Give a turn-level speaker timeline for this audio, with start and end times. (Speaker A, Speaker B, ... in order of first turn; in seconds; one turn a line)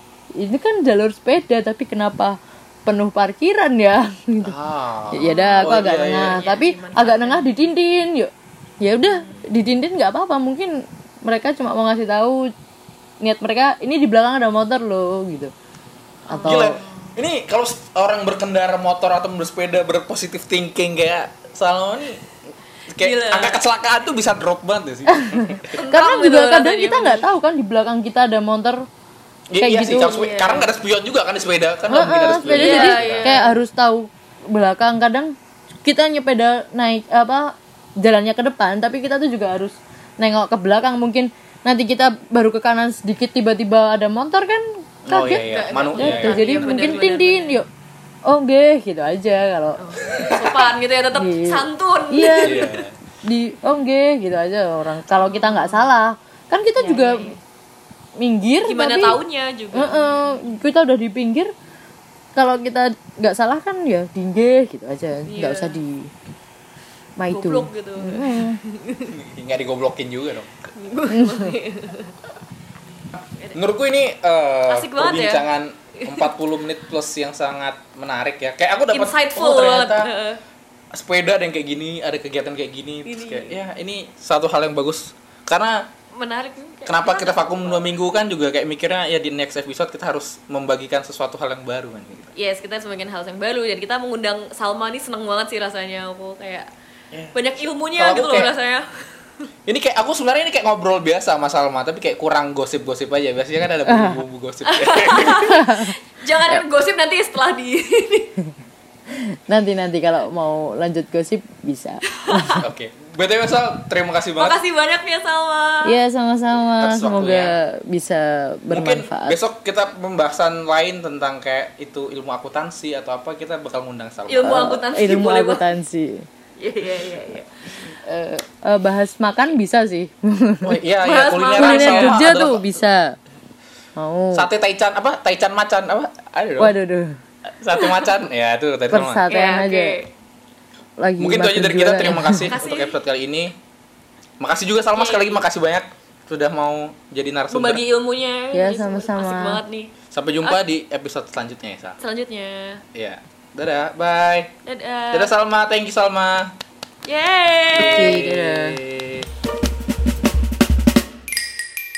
Speaker A: 0.3-4.5
Speaker B: 4.4-6.4
Speaker A: 5.1-12.5
Speaker C: 5.2-7.6
Speaker C: 9.0-9.4
Speaker A: 13.2-15.5
Speaker C: 16.3-17.1
Speaker A: 16.3-16.8
Speaker B: 16.4-22.2
Speaker B: 22.9-25.7
Speaker C: 23.0-23.6
Speaker A: 25.1-28.8
Speaker C: 25.7-27.3
Speaker B: 29.5-33.3
Speaker A: 29.6-30.1
Speaker C: 29.9-30.7
Speaker A: 31.9-35.3
Speaker C: 32.5-33.6
Speaker A: 35.8-45.4
Speaker B: 45.0-46.7
Speaker C: 45.3-47.6
Speaker A: 45.9-47.7
Speaker A: 48.2-49.8
Speaker C: 49.8-52.8
Speaker B: 50.1-50.6
Speaker A: 51.1-52.6
Speaker B: 52.4-52.9
Speaker A: 53.2-57.3
Speaker C: 55.2-55.9
Speaker C: 56.8-57.4
Speaker A: 58.2-59.2
Speaker C: 58.6-60.2
Speaker A: 59.7-61.5
Speaker A: 62.3-66.1
Speaker C: 65.3-65.8
Speaker A: 67.2-68.6
Speaker C: 67.3-69.1
Speaker B: 69.1-70.5
Speaker C: 70.7-72.2
Speaker A: 71.1-71.5
Speaker B: 73.1-80.1
Speaker C: 74.7-75.5
Speaker C: 76.0-76.3
Speaker C: 78.9-80.4
Speaker B: 80.9-85.9
Speaker C: 83.0-83.6
Speaker C: 86.1-88.0
Speaker B: 86.8-92.3
Speaker C: 92.3-96.7
Speaker C: 97.3-98.8
Speaker B: 97.9-98.5
Speaker B: 99.7-105.6
Speaker A: 103.8-104.2
Speaker C: 104.6-108.3
Speaker A: 105.3-105.9
Speaker A: 109.1-112.6
Speaker C: 112.2-112.6
Speaker B: 112.6-114.6
Speaker C: 114.4-116.0
Speaker A: 115.8-119.4
Speaker B: 116.8-117.5
Speaker B: 118.7-124.6
Speaker C: 124.3-125.6
Speaker A: 124.4-126.2
Speaker C: 126.6-127.5
Speaker A: 128.0-130.8
Speaker B: 130.6-132.6
Speaker C: 131.0-132.2
Speaker A: 131.6-133.1
Speaker A: 133.9-134.5
Speaker B: 134.3-136.7
Speaker A: 136.6-137.1
Speaker B: 137.4-139.2
Speaker C: 137.8-138.1
Speaker A: 138.9-139.9
Speaker C: 139.3-140.1
Speaker A: 141.0-142.5
Speaker B: 141.2-143.5
Speaker C: 142.3-143.0
Speaker B: 144.4-147.8
Speaker C: 144.9-145.4
Speaker C: 147.5-150.6
Speaker A: 148.5-149.6
Speaker B: 150.1-151.9
Speaker C: 152.0-152.8
Speaker B: 152.9-154.5
Speaker C: 154.7-155.3
Speaker B: 155.1-156.5
Speaker C: 157.0-158.2
Speaker B: 157.7-159.3
Speaker A: 157.8-158.8